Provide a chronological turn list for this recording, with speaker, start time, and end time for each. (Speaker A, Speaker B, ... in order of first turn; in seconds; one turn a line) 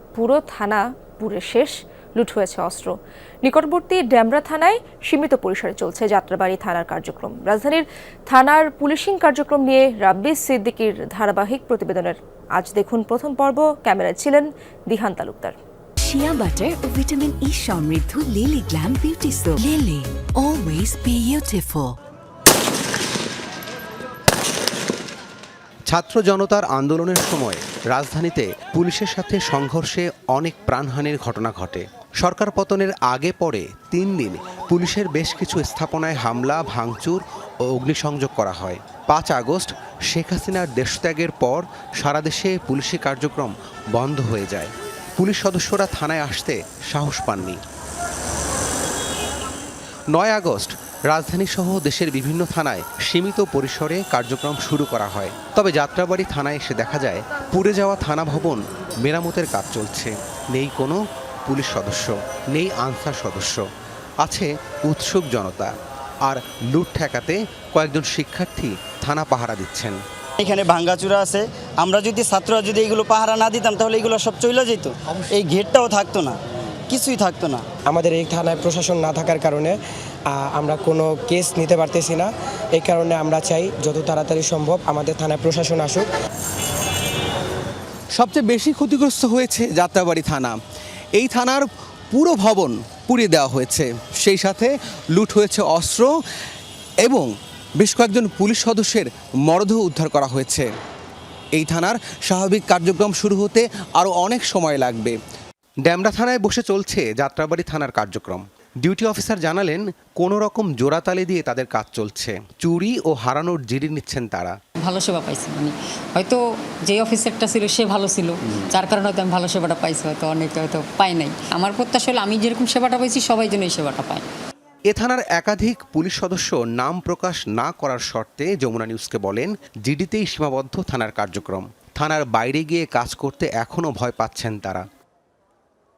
Speaker A: 0.1-2.9
Speaker A: 3.4-15.6
Speaker B: 16.0-22.0
Speaker C: 25.9-47.6
Speaker C: 50.1-63.6
Speaker C: 64.2-70.0
Speaker D: 70.4-76.4
Speaker D: 76.9-77.6
Speaker E: 77.9-79.8
Speaker E: 80.3-86.1
Speaker C: 88.1-90.6
Speaker C: 91.1-96.1
Speaker C: 97.0-100.7
Speaker C: 101.5-105.1
Speaker C: 105.8-114.6
Speaker F: 114.8-124.2
Speaker C: 124.9-134.9